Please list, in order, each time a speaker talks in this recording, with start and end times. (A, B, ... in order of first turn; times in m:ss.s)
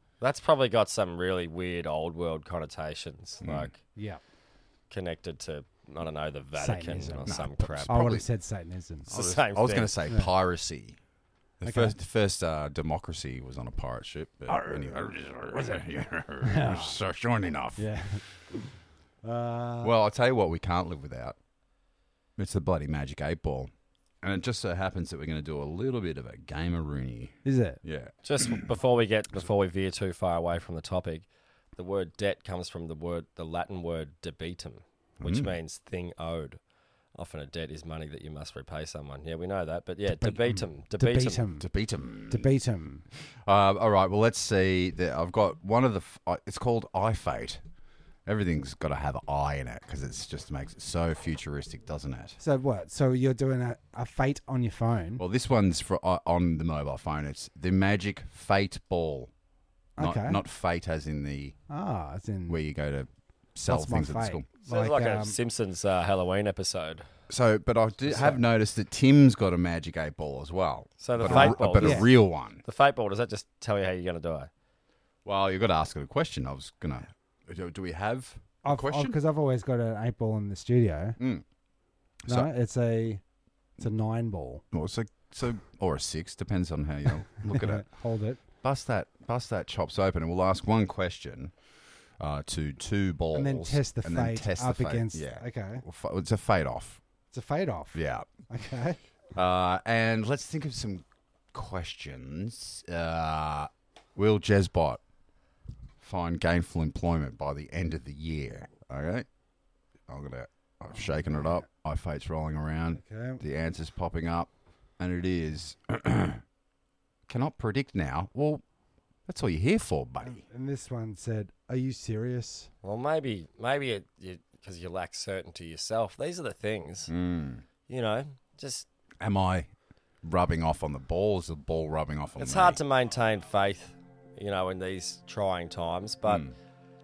0:00.2-0:03.8 A
0:03.4-0:03.7 B
0:04.0-0:04.2 C
0:04.9-0:08.0 A
0:06.6-0:07.3 C
0:07.3-0:08.3 B
0:07.9-0:09.1 C
0:09.1-0:11.0 B
0:09.1-0:09.9 A
0:11.6-0:17.9 B
0:11.6-0:12.0 C
0:14.5-0:15.8 C
0:16.4-0:17.0 C
0:17.8-0:18.7 C
0:19.2-0:19.9 C
0:19.8-0:21.4 B
0:22.4-0:23.7 B
0:24.2-0:28.7 B
0:27.4-0:27.8 C
0:28.2-0:36.6 A
0:35.2-0:35.6 B
0:37.2-0:41.4 A
0:40.1-0:41.7 C
0:41.6-0:42.5 B
0:42.3-0:43.0 C
0:43.4-0:47.6 B
0:48.2-0:52.4 B
0:52.4-0:55.2 C
0:55.2-0:59.3 B
1:00.0-1:00.4 C
1:00.0-1:01.6 B
1:01.7-1:02.6 C
1:02.5-1:04.5 B
1:03.7-1:05.4 C
1:04.7-1:07.0 A
1:07.3-1:12.6 B
1:08.1-1:08.4 C
1:11.0-1:14.5 A
1:11.2-1:12.1 C
1:15.2-1:19.2 B
1:18.6-1:21.2 C
1:21.2-1:21.4 B
1:22.3-1:23.2 C
1:23.8-1:24.6 C
1:24.7-1:27.9 B
1:27.5-1:28.4 C
1:28.6-1:31.6 B
1:32.2-1:37.0 B
1:33.3-1:35.8 C
1:37.3-1:39.0 C
1:37.9-1:38.3 B
1:39.4-1:45.0 B
1:46.0-1:49.3 B
1:50.1-1:56.4 B
1:51.0-1:51.6 C
1:53.0-1:53.4 C
1:57.3-1:58.6 B
1:59.3-2:00.4 B
2:00.2-2:02.7 C
2:02.8-2:07.1 A
2:07.1-2:07.6 B
2:07.9-2:08.9 A
2:09.2-2:09.7 B
2:10.2-2:12.8 B
2:12.4-2:16.4 A
2:16.3-2:16.5 B